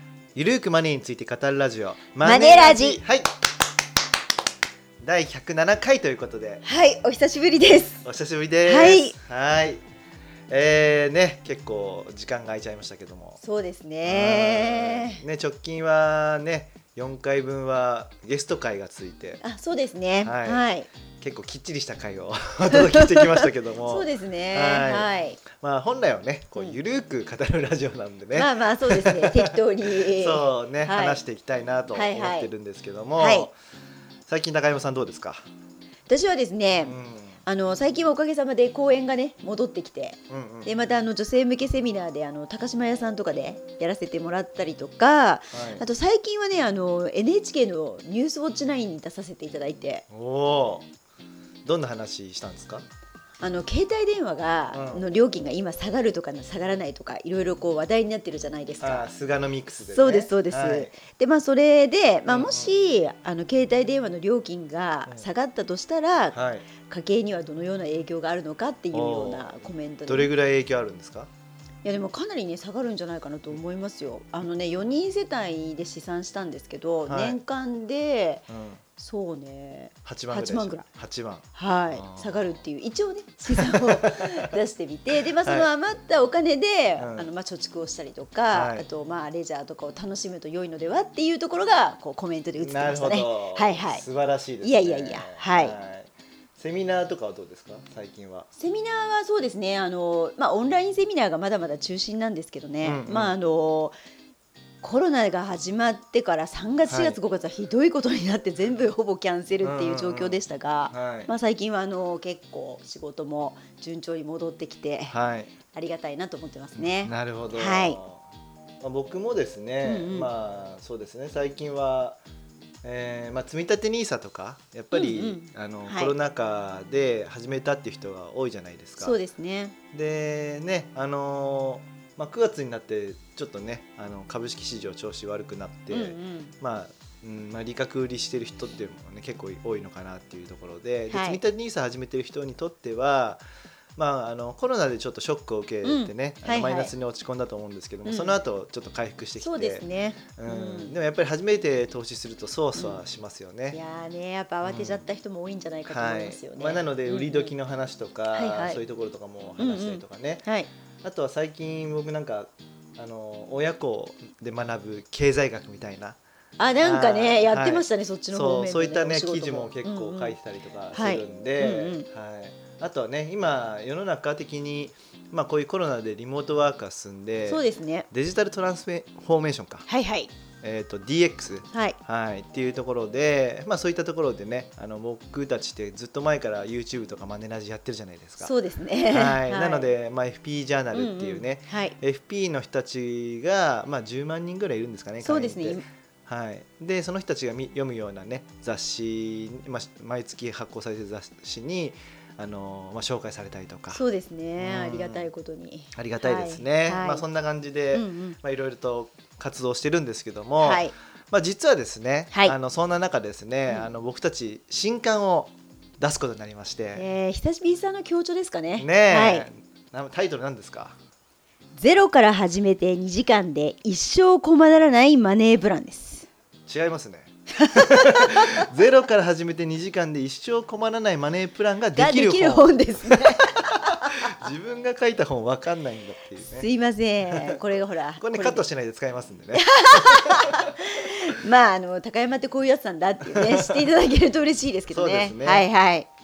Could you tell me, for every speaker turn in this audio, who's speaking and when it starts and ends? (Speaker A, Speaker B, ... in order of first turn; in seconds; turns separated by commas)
Speaker A: 0.3-3.3, Speaker B: 2.2-3.0, Speaker A: 5.0-6.6, Speaker B: 6.6-8.0, Speaker A: 8.0-9.8, Speaker B: 8.6-9.2, Speaker A: 10.5-13.4, Speaker B: 13.4-15.2, Speaker A: 14.1-19.4, Speaker B: 19.4-20.9, Speaker A: 20.2-20.6, Speaker A: 21.2-33.5, Speaker B: 22.7-25.4, Speaker B: 28.3-31.2, Speaker B: 31.9-32.5, Speaker B: 33.2-33.5, Speaker A: 34.3-35.4, Speaker B: 36.1-50.0, Speaker A: 36.8-37.4, Speaker A: 40.3-40.7, Speaker A: 45.5-45.8, Speaker A: 50.1-50.9, Speaker A: 51.6-52.8, Speaker B: 53.4-59.1, Speaker A: 54.7-55.0, Speaker A: 58.8-60.9, Speaker B: 59.9-70.3, Speaker A: 62.3-62.8, Speaker A: 66.3-66.7, Speaker A: 68.9-71.3, Speaker B: 71.8-80.8, Speaker A: 77.1-77.4, Speaker A: 78.5-78.8, Speaker A: 80.0-82.6, Speaker B: 81.5-94.0, Speaker A: 83.5-84.5, Speaker A: 85.4-85.7, Speaker A: 87.0-87.3, Speaker A: 88.5-88.9, Speaker A: 92.6-98.5, Speaker B: 94.6-95.8, Speaker B: 98.6-104.0, Speaker A: 102.8-103.3, Speaker B: 104.8-115.1, Speaker A: 106.9-107.2, Speaker A: 109.6-111.3, Speaker A: 115.1-115.5, Speaker B: 115.7-118.0, Speaker A: 116.8-118.2, Speaker A: 118.8-122.2, Speaker B: 119.8-120.3, Speaker A: 122.8-129.2, Speaker B: 124.9-126.1, Speaker B: 129.0-129.8, Speaker A: 129.9-143.4, Speaker B: 135.9-136.5, Speaker B: 141.1-141.4, Speaker A: 144.0-153.8, Speaker B: 145.8-146.9, Speaker B: 148.0-148.4, Speaker B: 149.4-150.9, Speaker B: 152.8-153.0, Speaker B: 153.7-157.5, Speaker A: 154.6-155.1, Speaker A: 155.9-160.5, Speaker B: 158.3-158.8, Speaker B: 159.6-160.7, Speaker A: 161.0-166.2, Speaker B: 166.6-170.4, Speaker A: 166.8-179.8, Speaker B: 170.9-172.1, Speaker B: 177.5-178.1, Speaker B: 179.9-180.3, Speaker A: 180.6-188.5, Speaker B: 181.7-182.0, Speaker B: 188.4-189.9, Speaker A: 189.1-204.0, Speaker B: 190.9-192.0, Speaker B: 195.2-195.8, Speaker B: 203.9-207.2, Speaker A: 204.6-205.3, Speaker A: 205.9-217.1, Speaker B: 207.9-208.4, Speaker B: 210.6-210.9, Speaker B: 216.9-219.5, Speaker A: 218.8-220.9, Speaker B: 221.8-226.3, Speaker A: 226.7-236.7, Speaker B: 227.5-228.7, Speaker B: 232.0-234.4, Speaker B: 236.5-238.7, Speaker A: 237.2-237.6, Speaker A: 238.2-240.8, Speaker B: 239.5-246.1, Speaker A: 243.2-243.9, Speaker A: 244.9-245.7